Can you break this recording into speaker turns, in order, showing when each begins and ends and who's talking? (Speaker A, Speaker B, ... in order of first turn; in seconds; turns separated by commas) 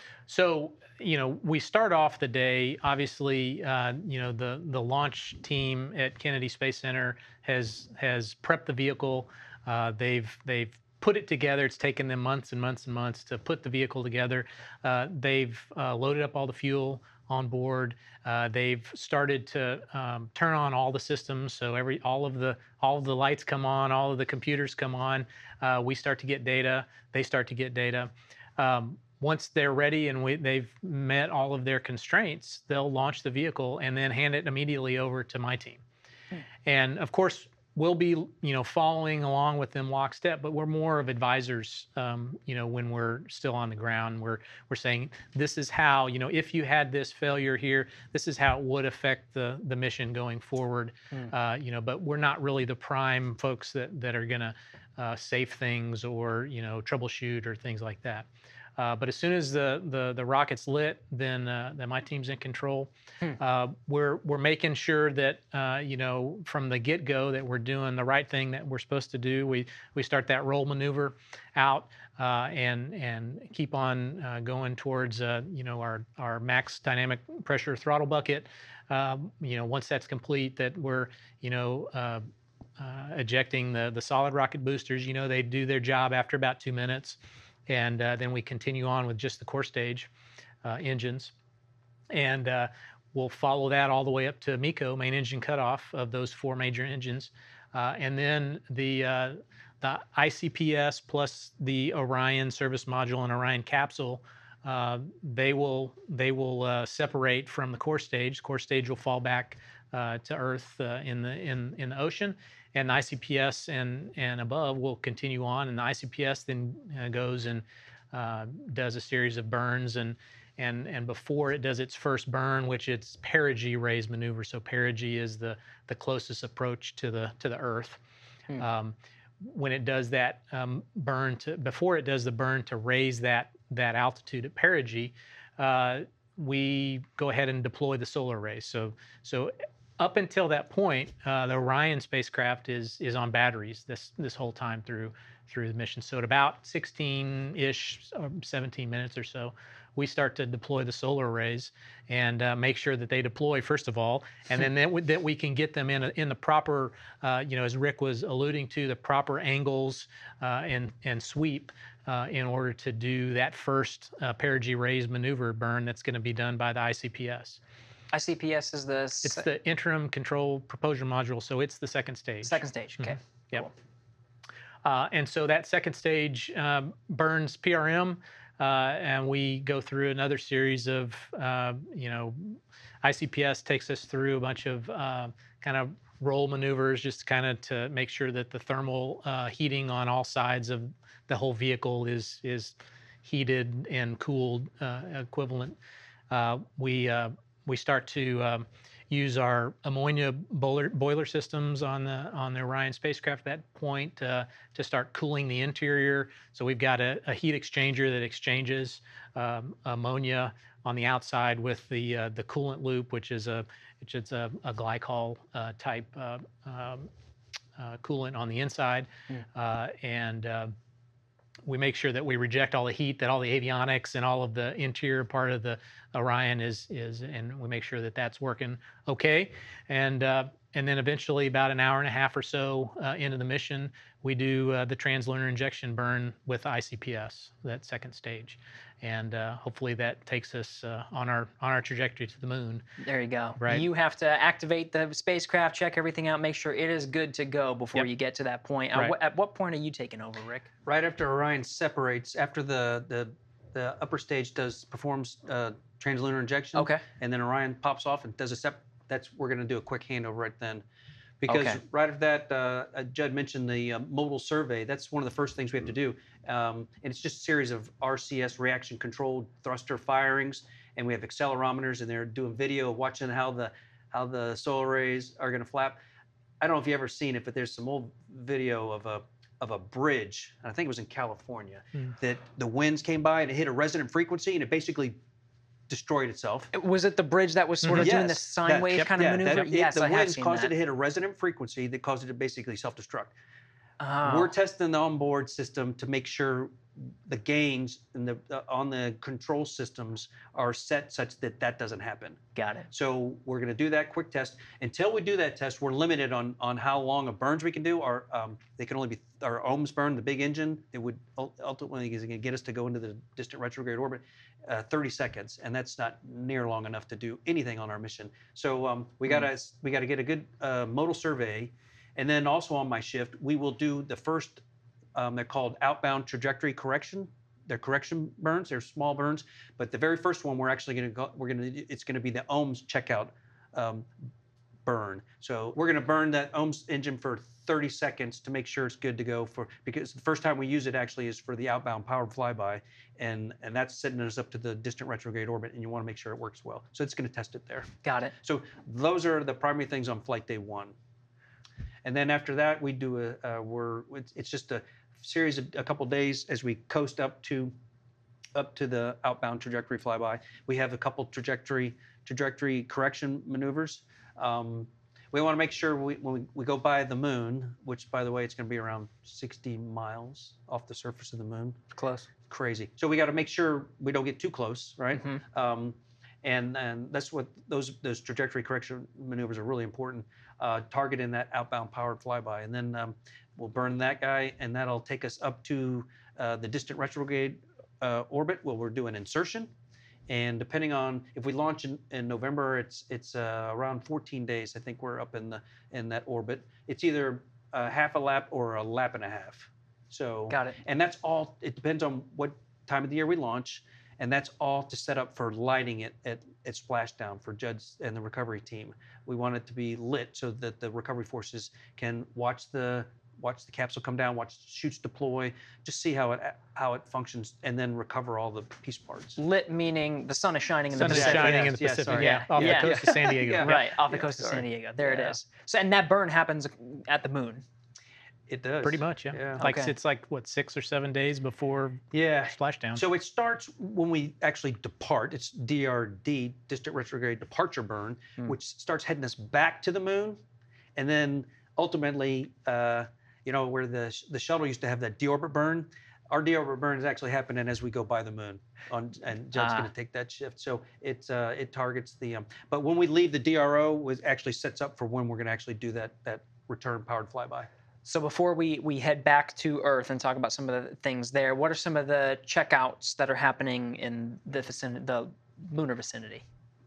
Speaker A: 0.3-35.8, Speaker A: 36.6-82.2, Speaker A: 82.8-90.1, Speaker A: 90.6-91.3, Speaker A: 92.1-128.0, Speaker A: 128.6-167.6, Speaker B: 168.1-169.5, Speaker A: 169.2-173.7, Speaker B: 172.4-173.7, Speaker A: 174.8-195.8, Speaker A: 196.3-217.1, Speaker A: 217.8-220.7, Speaker A: 221.7-242.8, Speaker B: 243.0-250.7, Speaker A: 243.6-243.9, Speaker C: 250.9-260.8, Speaker B: 256.8-257.0, Speaker C: 261.4-276.0, Speaker B: 261.5-261.8, Speaker C: 276.6-285.2, Speaker C: 285.9-286.7, Speaker B: 286.7-290.7, Speaker A: 287.8-288.1, Speaker C: 288.0-293.3, Speaker B: 294.0-294.5, Speaker C: 294.2-302.4, Speaker B: 302.6-302.9, Speaker C: 302.9-324.6, Speaker C: 325.1-334.1, Speaker C: 334.9-350.9, Speaker B: 348.0-348.3, Speaker C: 352.1-357.7, Speaker C: 358.6-371.8, Speaker B: 372.0-372.3, Speaker C: 372.4-389.7, Speaker B: 375.1-375.4, Speaker C: 390.3-419.4, Speaker B: 400.5-400.8, Speaker B: 419.4-423.0, Speaker A: 421.0-423.9, Speaker C: 421.0-425.3, Speaker B: 423.6-427.6, Speaker C: 428.5-429.6, Speaker A: 428.8-433.0, Speaker B: 429.6-429.9, Speaker C: 432.1-440.4, Speaker C: 441.0-457.7, Speaker B: 449.6-449.9, Speaker B: 458.1-466.4